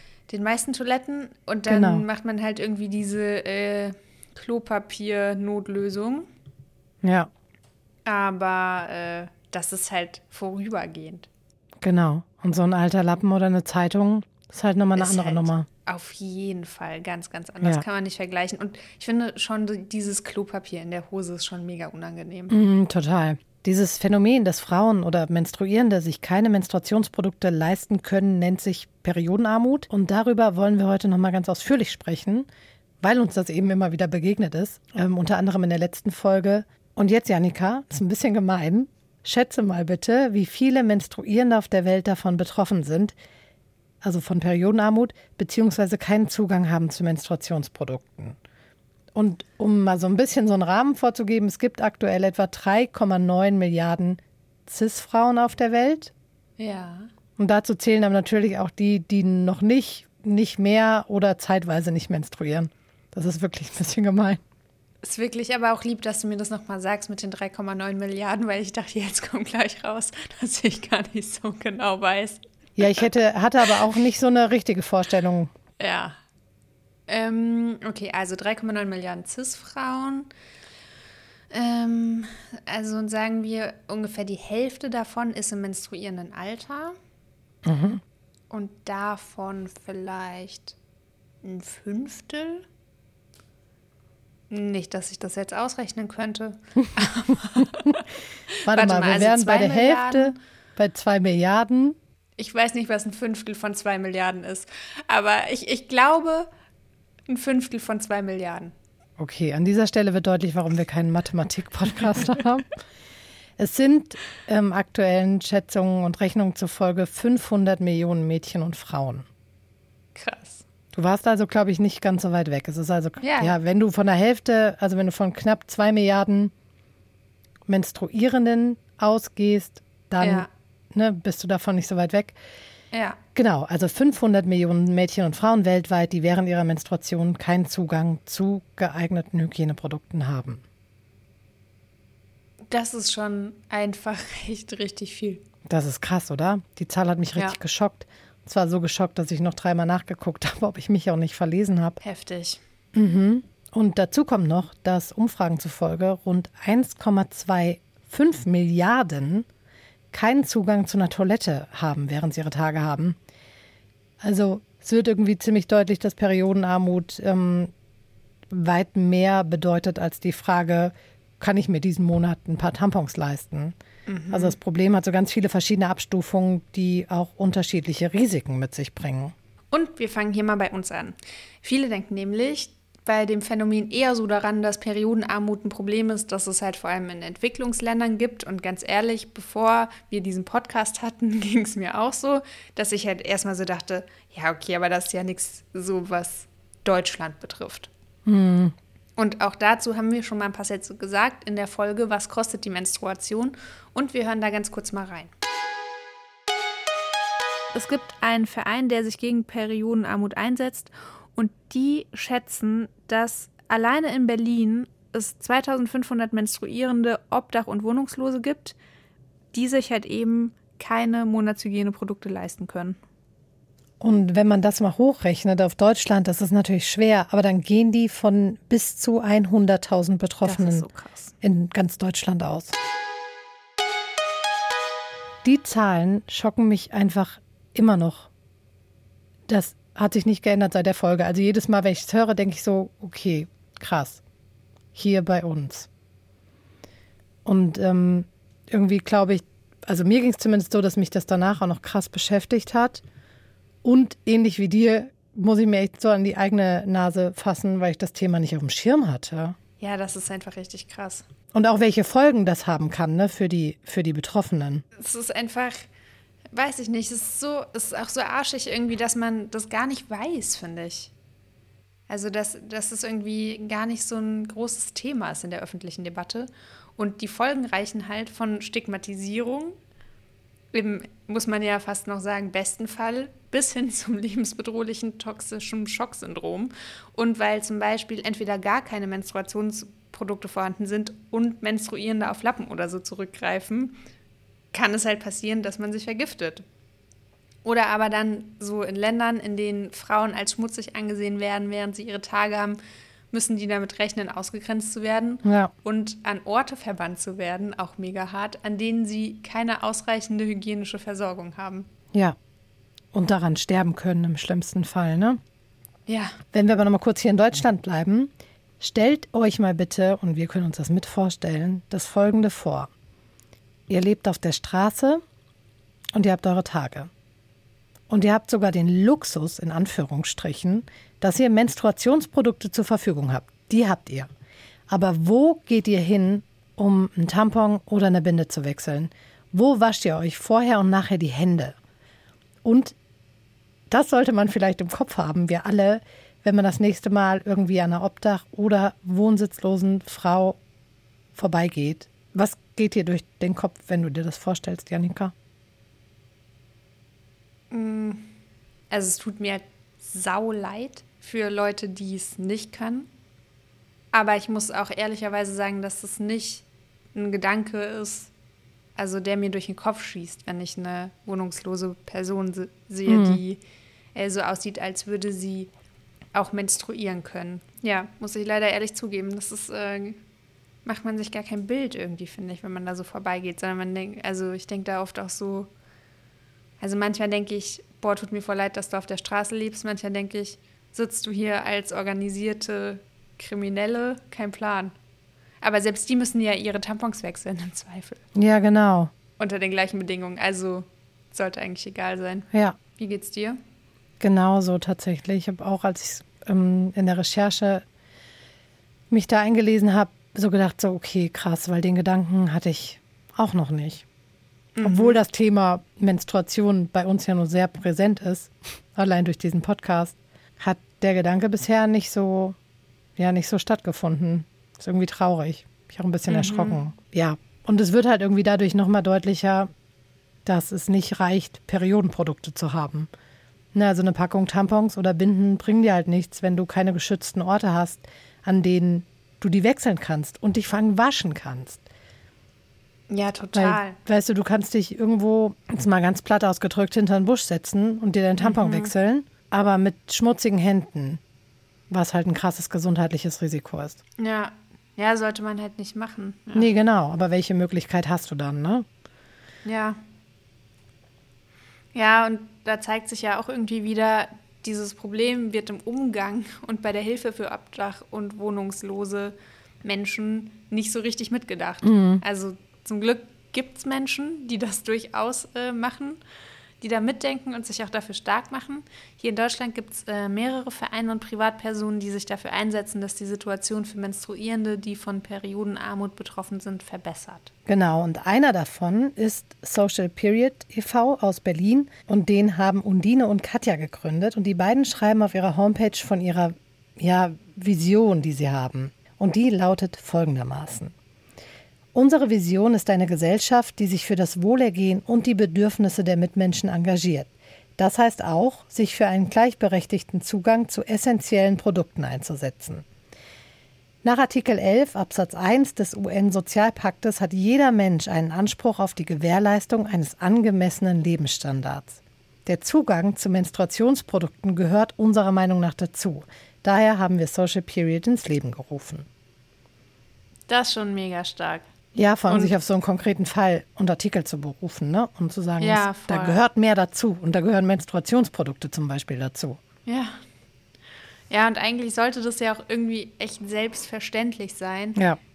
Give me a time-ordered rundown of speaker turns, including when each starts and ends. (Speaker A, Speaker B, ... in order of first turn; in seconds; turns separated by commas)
Speaker A: 0.3-6.3, Speaker B: 1.7-2.1, Speaker B: 7.0-7.3, Speaker A: 8.1-11.3, Speaker B: 11.8-15.7, Speaker A: 14.9-22.6, Speaker B: 22.5-32.5, Speaker B: 33.0-43.2, Speaker B: 44.0-48.4, Speaker B: 49.1-56.1, Speaker A: 56.6-57.1, Speaker B: 57.4-64.4, Speaker A: 65.0-73.0, Speaker B: 72.8-75.5, Speaker A: 75.8-76.2, Speaker A: 77.1-80.3, Speaker A: 81.5-87.0, Speaker B: 87.7-88.0, Speaker A: 88.5-90.8, Speaker A: 91.4-92.7, Speaker A: 94.5-98.0, Speaker A: 98.6-100.4, Speaker B: 98.7-102.0, Speaker A: 102.4-106.5, Speaker A: 107.3-108.7, Speaker B: 109.2-112.7, Speaker B: 113.6-119.3, Speaker A: 120.2-120.6, Speaker B: 120.9-126.5, Speaker A: 123.2-123.5, Speaker B: 127.7-132.4, Speaker A: 130.2-130.5, Speaker A: 132.9-133.2, Speaker B: 133.3-140.6, Speaker A: 142.7-145.4, Speaker B: 145.7-152.0, Speaker A: 152.0-152.6, Speaker B: 152.9-159.5, Speaker B: 160.1-163.2, Speaker B: 164.2-167.7, Speaker B: 168.5-173.8, Speaker A: 174.1-174.6, Speaker B: 174.3-179.3, Speaker A: 179.7-197.9, Speaker B: 198.3-198.8, Speaker A: 199.2-205.3, Speaker A: 207.7-218.8, Speaker A: 219.5-223.0, Speaker B: 224.0-230.9, Speaker A: 230.4-231.3, Speaker B: 231.4-232.8, Speaker B: 235.4-238.3, Speaker B: 239.5-244.2, Speaker B: 244.9-245.9, Speaker B: 247.4-253.0, Speaker B: 253.8-259.6, Speaker A: 259.8-261.2, Speaker B: 261.5-264.8, Speaker A: 265.0-265.9, Speaker A: 266.5-271.1, Speaker A: 272.1-279.8, Speaker A: 280.7-294.0, Speaker A: 294.7-296.6, Speaker A: 297.6-302.8, Speaker A: 303.3-311.9, Speaker B: 305.4-305.7, Speaker B: 313.1-315.4, Speaker A: 316.1-316.4, Speaker B: 316.5-322.9, Speaker B: 323.9-325.2, Speaker B: 326.1-327.1, Speaker B: 328.1-334.3, Speaker B: 334.9-341.8, Speaker B: 342.6-343.0, Speaker B: 343.9-350.6, Speaker B: 351.4-355.3, Speaker A: 357.7-358.3, Speaker A: 358.9-363.1, Speaker A: 364.1-366.6, Speaker A: 367.1-368.3, Speaker A: 369.0-373.6, Speaker B: 373.1-373.4, Speaker A: 374.1-375.7, Speaker A: 376.4-380.2, Speaker A: 380.9-385.7, Speaker A: 386.8-394.9, Speaker A: 395.6-398.2, Speaker B: 398.4-399.1, Speaker A: 399.4-403.6, Speaker B: 404.2-407.8, Speaker B: 409.1-414.1, Speaker A: 414.8-415.2, Speaker B: 414.8-422.6, Speaker B: 423.2-429.7, Speaker A: 426.3-426.8, Speaker B: 430.4-433.1, Speaker B: 433.7-441.8, Speaker A: 443.1-444.0, Speaker B: 443.5-451.2, Speaker A: 448.4-448.9, Speaker B: 451.9-454.0, Speaker A: 454.2-456.7, Speaker B: 456.5-458.9, Speaker A: 459.6-460.0, Speaker A: 461.9-476.2, Speaker B: 471.8-472.2, Speaker A: 476.8-487.5, Speaker B: 487.7-500.9, Speaker B: 501.9-512.8, Speaker B: 514.0-529.1, Speaker A: 530.5-531.6, Speaker B: 532.0-539.6, Speaker A: 532.3-532.5, Speaker A: 535.6-536.4, Speaker A: 539.9-540.2, Speaker A: 541.3-545.0